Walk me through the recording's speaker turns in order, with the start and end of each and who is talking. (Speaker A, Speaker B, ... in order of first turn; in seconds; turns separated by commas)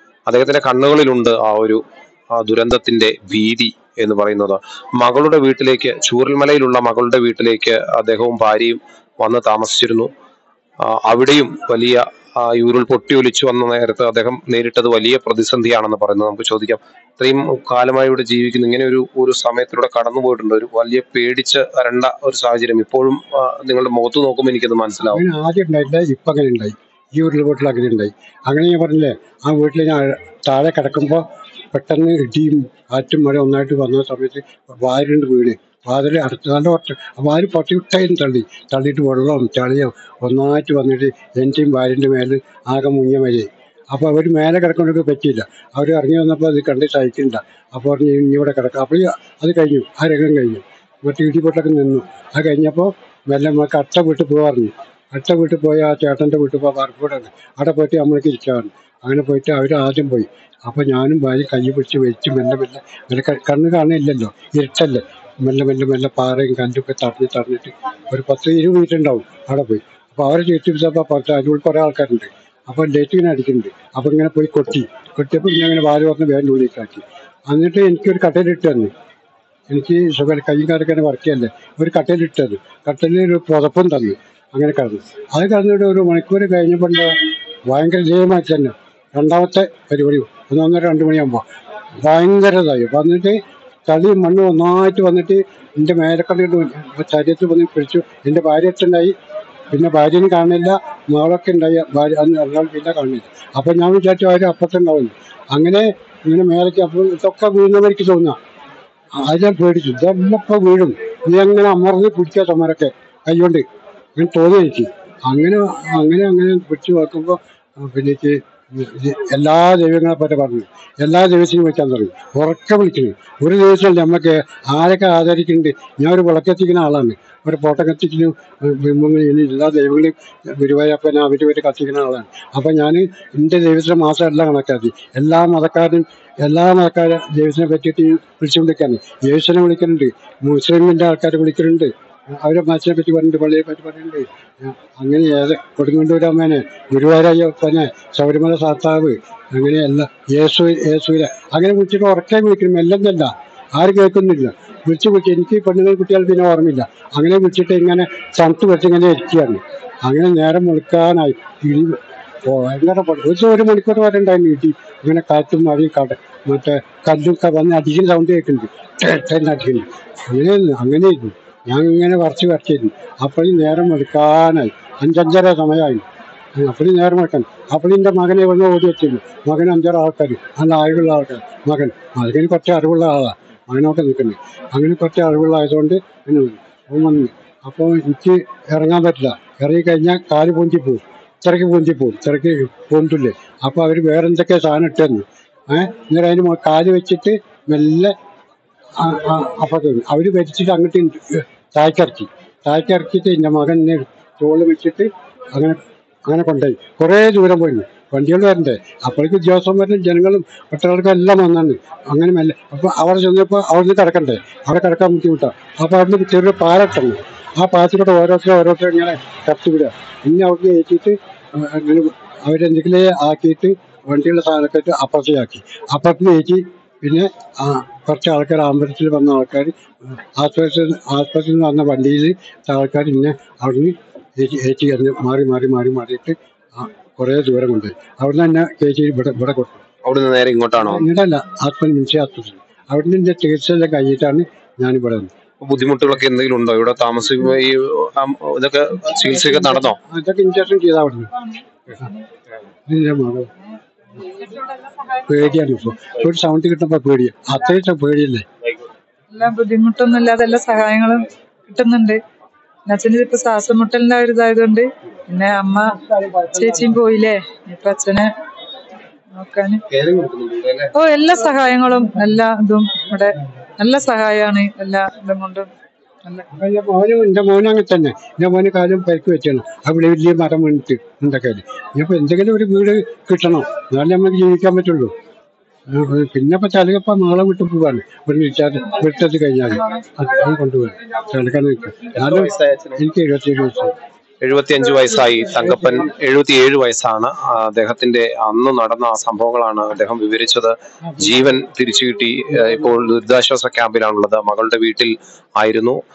Speaker A: 0.3-1.8, Speaker A: 2.3-10.1, Speaker A: 10.8-25.2, Speaker B: 25.1-78.9, Speaker B: 79.7-87.1, Speaker B: 87.7-91.4, Speaker B: 92.0-99.1, Speaker B: 99.7-108.4, Speaker B: 109.2-113.6, Speaker B: 114.2-176.0, Speaker B: 176.6-198.1, Speaker B: 199.0-239.8, Speaker A: 240.0-241.1, Speaker B: 240.8-245.3, Speaker A: 245.6-250.0, Speaker B: 250.0-251.4, Speaker B: 252.9-253.5, Speaker C: 254.3-255.0, Speaker B: 255.2-258.4, Speaker C: 259.3-262.2, Speaker C: 262.9-268.3, Speaker C: 269.4-269.8, Speaker A: 269.9-270.9, Speaker C: 270.9-275.7, Speaker B: 276.5-285.1, Speaker B: 285.9-293.9, Speaker A: 292.1-293.0, Speaker A: 294.4-306.0